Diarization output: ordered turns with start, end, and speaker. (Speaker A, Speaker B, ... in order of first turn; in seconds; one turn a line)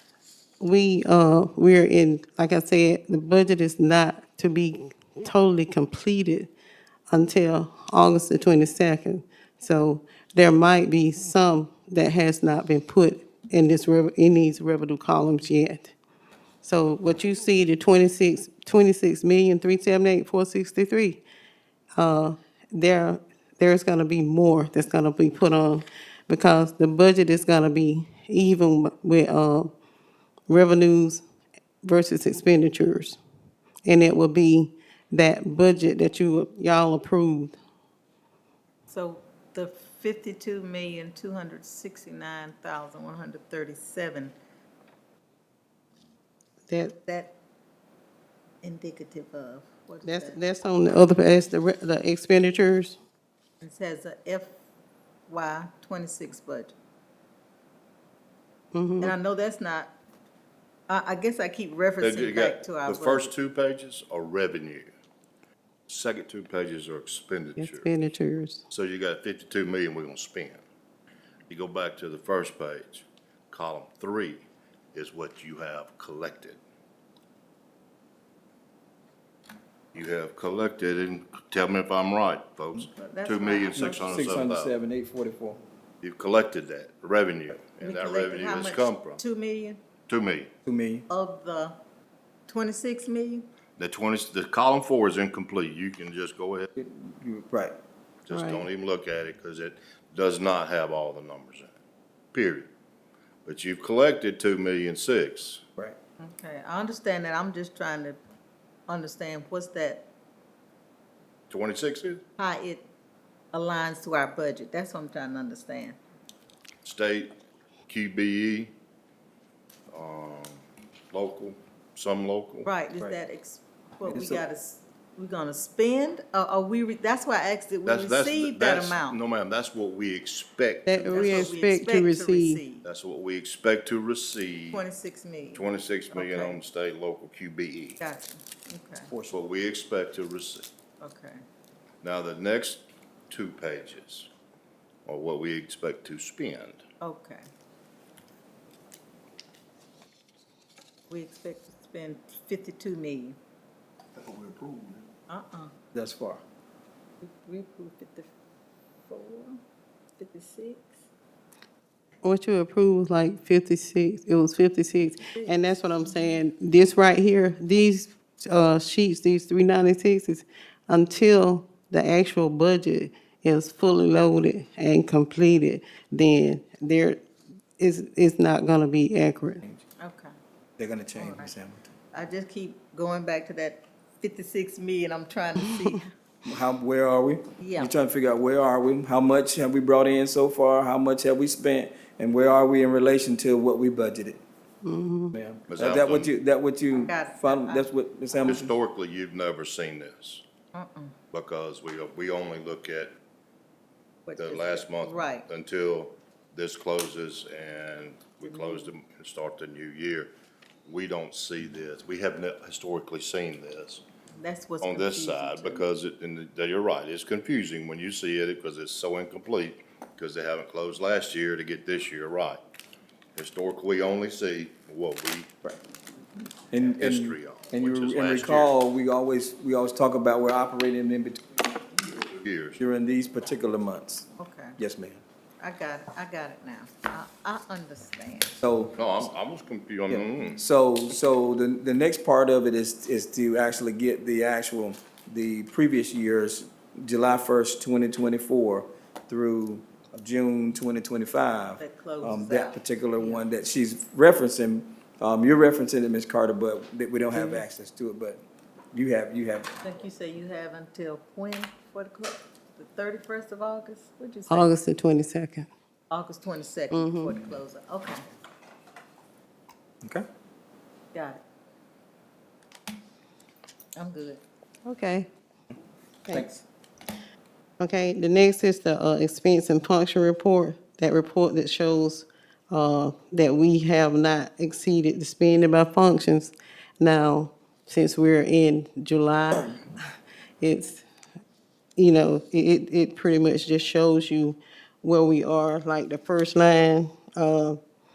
Speaker A: 0.6-6.5
Speaker A: 7.1-15.9
Speaker A: 16.6-21.2
Speaker A: 21.9-29.7
Speaker A: 30.5-31.2
Speaker A: 31.8-33.2
Speaker A: 33.8-37.5
Speaker B: 38.9-44.3
Speaker A: 46.7-46.9
Speaker B: 47.0-47.3
Speaker B: 48.6-50.4
Speaker A: 50.0-53.0
Speaker B: 53.6-54.6
Speaker B: 55.3-56.7
Speaker A: 58.7-59.1
Speaker B: 59.0-59.9
Speaker B: 60.9-63.3
Speaker C: 62.0-64.9
Speaker C: 65.9-67.9
Speaker A: 67.6-68.6
Speaker C: 68.7-70.6
Speaker C: 71.5-74.4
Speaker C: 74.9-76.6
Speaker C: 79.9-84.7
Speaker B: 83.0-84.2
Speaker D: 83.8-85.6
Speaker C: 86.0-89.2
Speaker B: 87.8-89.8
Speaker C: 90.1-90.5
Speaker D: 90.6-91.0
Speaker B: 91.1-91.8
Speaker B: 92.5-93.5
Speaker C: 93.8-96.7
Speaker D: 96.8-97.8
Speaker C: 98.2-101.7
Speaker A: 98.3-98.7
Speaker C: 102.3-102.7
Speaker C: 103.4-105.6
Speaker B: 106.2-108.2
Speaker B: 108.9-110.1
Speaker C: 111.5-112.2
Speaker B: 112.4-112.8
Speaker B: 113.5-116.0
Speaker C: 116.8-117.3
Speaker C: 117.9-118.7
Speaker C: 119.9-122.7
Speaker B: 122.6-129.2
Speaker D: 124.0-124.4
Speaker C: 127.8-131.6
Speaker A: 130.8-132.6
Speaker B: 131.1-132.8
Speaker C: 132.8-134.8
Speaker B: 134.7-136.6
Speaker C: 135.5-138.0
Speaker B: 138.0-139.1
Speaker D: 139.1-139.4
Speaker C: 139.3-140.7
Speaker B: 141.0-141.4
Speaker C: 142.0-144.3
Speaker C: 145.1-146.8
Speaker B: 147.0-147.4
Speaker B: 151.1-153.4
Speaker D: 154.2-155.0
Speaker B: 155.3-155.7
Speaker D: 155.9-156.4
Speaker B: 157.2-158.3
Speaker B: 159.1-159.6
Speaker B: 160.2-161.0
Speaker A: 162.2-177.2
Speaker B: 165.3-165.6
Speaker A: 177.8-179.6
Speaker B: 180.0-180.3
Speaker D: 180.8-181.9
Speaker B: 181.2-181.5
Speaker B: 182.1-186.1
Speaker D: 186.4-194.4
Speaker B: 187.6-187.9
Speaker A: 194.8-195.3
Speaker D: 195.3-198.7
Speaker C: 195.7-196.3
Speaker B: 197.1-197.9
Speaker C: 198.4-200.4
Speaker B: 200.7-201.2
Speaker C: 201.3-203.1
Speaker B: 204.3-205.5
Speaker C: 204.4-210.3
Speaker B: 208.5-208.9
Speaker C: 210.8-214.0
Speaker B: 214.4-215.8
Speaker C: 214.8-222.6
Speaker C: 223.3-225.5
Speaker D: 226.7-232.1
Speaker C: 226.8-228.7
Speaker C: 232.2-232.8
Speaker D: 232.8-235.2
Speaker B: 234.4-234.8
Speaker B: 235.6-238.6
Speaker D: 238.6-239.0
Speaker C: 238.9-240.6
Speaker D: 240.1-259.8
Speaker B: 251.8-253.4
Speaker B: 259.8-264.7
Speaker A: 264.5-265.7
Speaker B: 266.1-268.2
Speaker A: 266.9-267.3
Speaker B: 271.1-271.4
Speaker B: 273.9-274.4
Speaker A: 274.9-275.3
Speaker D: 276.3-276.6
Speaker A: 277.8-289.9
Speaker A: 290.6-291.0
Speaker A: 292.0-297.8